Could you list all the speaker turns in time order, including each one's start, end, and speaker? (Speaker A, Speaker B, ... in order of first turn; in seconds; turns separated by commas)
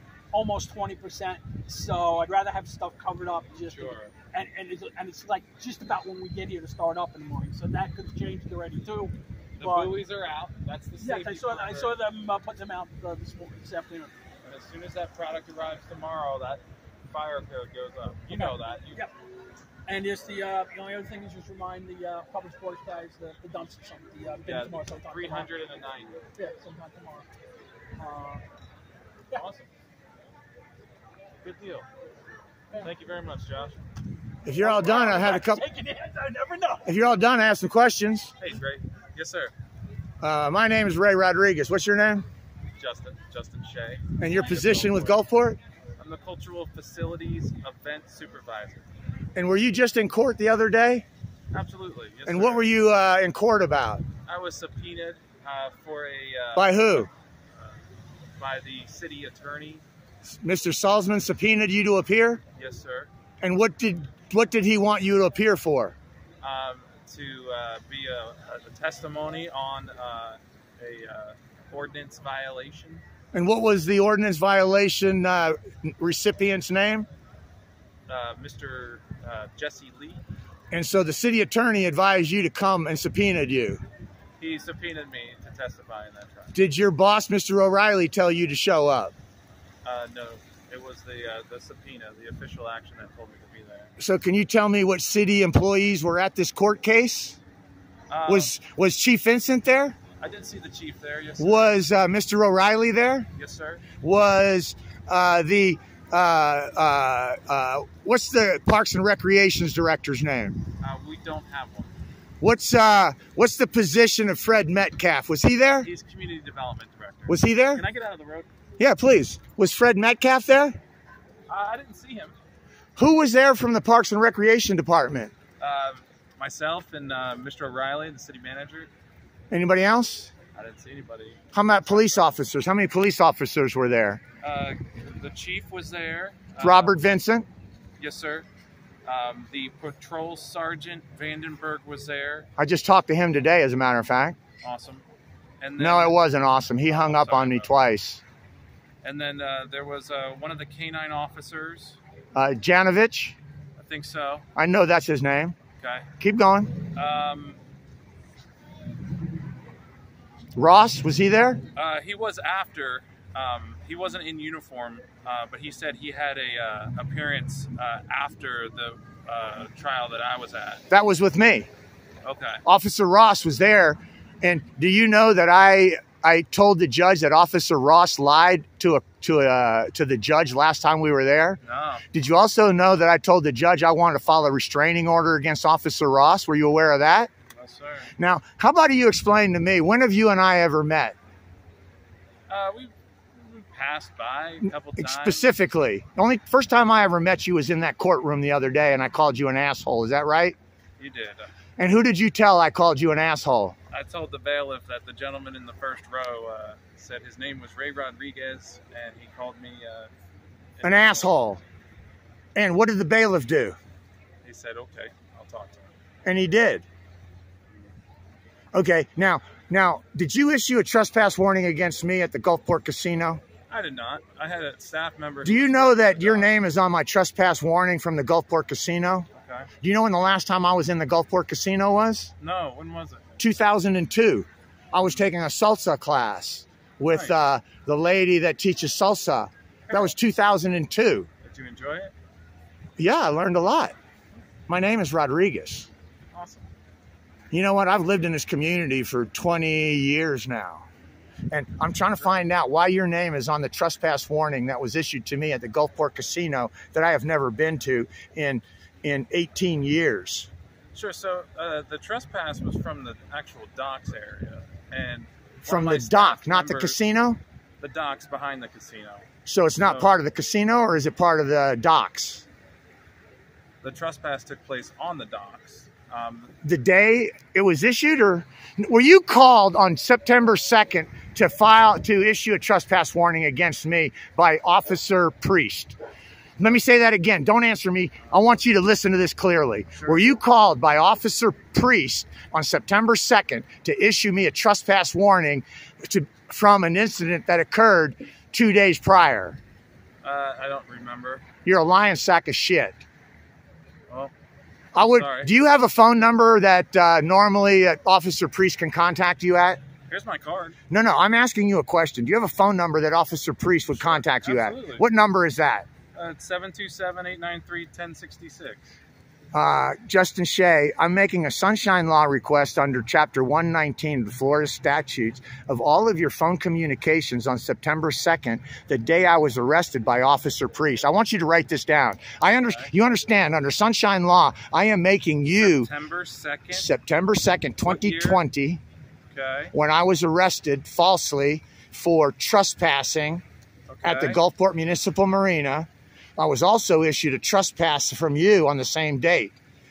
Speaker A: 0.3-10.0, Speaker B: 3.7-4.1, Speaker B: 9.6-12.0, Speaker A: 11.0-14.1, Speaker B: 14.4-19.1, Speaker A: 18.3-19.1, Speaker A: 19.9-25.5, Speaker B: 24.4-26.2, Speaker A: 26.4-27.3, Speaker A: 28.0-28.4, Speaker B: 29.3-29.7, Speaker B: 31.4-31.9, Speaker B: 32.8-33.8, Speaker C: 34.5-35.6, Speaker A: 34.6-36.9, Speaker C: 36.9-38.3, Speaker B: 38.4-39.5, Speaker C: 40.2-42.3, Speaker B: 42.8-45.2, Speaker C: 44.2-45.6, Speaker B: 46.0-48.9, Speaker C: 49.4-51.1, Speaker B: 51.5-52.7, Speaker C: 52.3-54.1, Speaker B: 54.2-57.7, Speaker C: 56.6-57.1, Speaker B: 58.4-59.8, Speaker C: 60.3-62.4, Speaker B: 62.6-63.1, Speaker C: 63.4-66.0, Speaker B: 66.4-73.0, Speaker C: 73.3-77.1, Speaker B: 78.1-80.2, Speaker C: 80.7-83.8, Speaker B: 84.4-86.6, Speaker C: 86.5-89.1, Speaker B: 89.8-93.9, Speaker C: 94.0-97.4, Speaker B: 98.1-98.5, Speaker C: 98.3-100.0, Speaker B: 100.2-101.8, Speaker C: 101.4-103.3, Speaker B: 103.3-103.8, Speaker C: 104.0-110.6, Speaker B: 110.8-111.9, Speaker C: 112.4-115.9, Speaker B: 115.8-118.5, Speaker C: 117.3-117.8, Speaker C: 118.8-120.8, Speaker B: 121.5-122.4, Speaker C: 123.0-125.3, Speaker B: 125.6-128.9, Speaker C: 129.5-130.3, Speaker B: 130.5-132.3, Speaker C: 131.5-134.2, Speaker B: 134.4-137.0, Speaker C: 136.6-137.5, Speaker B: 138.0-138.5, Speaker B: 139.1-142.5, Speaker C: 142.6-144.4, Speaker B: 144.6-145.1, Speaker B: 145.6-146.2, Speaker C: 145.8-148.2, Speaker B: 146.8-147.7, Speaker B: 149.0-152.0, Speaker C: 152.3-153.4, Speaker B: 153.8-154.4, Speaker C: 154.6-155.6, Speaker B: 155.8-156.1, Speaker C: 156.2-156.8, Speaker B: 156.9-157.6, Speaker C: 160.6-161.6, Speaker B: 161.8-170.8, Speaker C: 170.9-171.7, Speaker B: 172.2-172.6, Speaker C: 172.7-181.6, Speaker B: 181.6-182.0, Speaker C: 182.1-187.3, Speaker B: 187.5-188.1, Speaker C: 188.2-191.2, Speaker B: 192.5-195.5, Speaker C: 195.0-200.6, Speaker B: 201.0-201.5, Speaker C: 201.8-203.8, Speaker B: 203.9-210.1, Speaker B: 210.8-211.4, Speaker C: 210.8-211.6, Speaker C: 212.6-213.8, Speaker B: 214.4-215.9, Speaker C: 216.2-216.8, Speaker C: 218.7-223.4, Speaker B: 223.7-226.5, Speaker C: 225.4-229.3, Speaker B: 229.3-229.7, Speaker C: 229.8-232.3, Speaker B: 232.4-233.4, Speaker C: 233.4-241.3, Speaker B: 235.0-235.3, Speaker B: 237.1-237.4, Speaker B: 239.9-240.1, Speaker B: 241.4-242.1, Speaker C: 243.0-243.9, Speaker C: 244.7-245.9, Speaker B: 246.3-246.7, Speaker C: 247.5-250.8, Speaker C: 251.5-260.5, Speaker B: 260.9-267.0, Speaker C: 265.7-267.4, Speaker B: 267.8-269.2, Speaker C: 269.5-272.4, Speaker B: 269.8-270.2, Speaker B: 273.8-276.5, Speaker C: 276.6-286.0, Speaker C: 286.6-299.6, Speaker B: 290.0-290.3, Speaker B: 300.2-301.5, Speaker C: 301.6-303.0, Speaker B: 304.9-305.5, Speaker C: 304.9-309.8, Speaker B: 310.1-310.8, Speaker C: 310.9-315.9, Speaker B: 313.9-315.1, Speaker B: 316.1-318.9, Speaker C: 319.5-335.9, Speaker B: 332.6-332.9, Speaker B: 335.6-336.9, Speaker C: 336.7-338.8, Speaker B: 337.8-338.4, Speaker B: 339.3-339.7, Speaker C: 339.7-343.4, Speaker B: 343.9-344.4, Speaker C: 344.0-349.6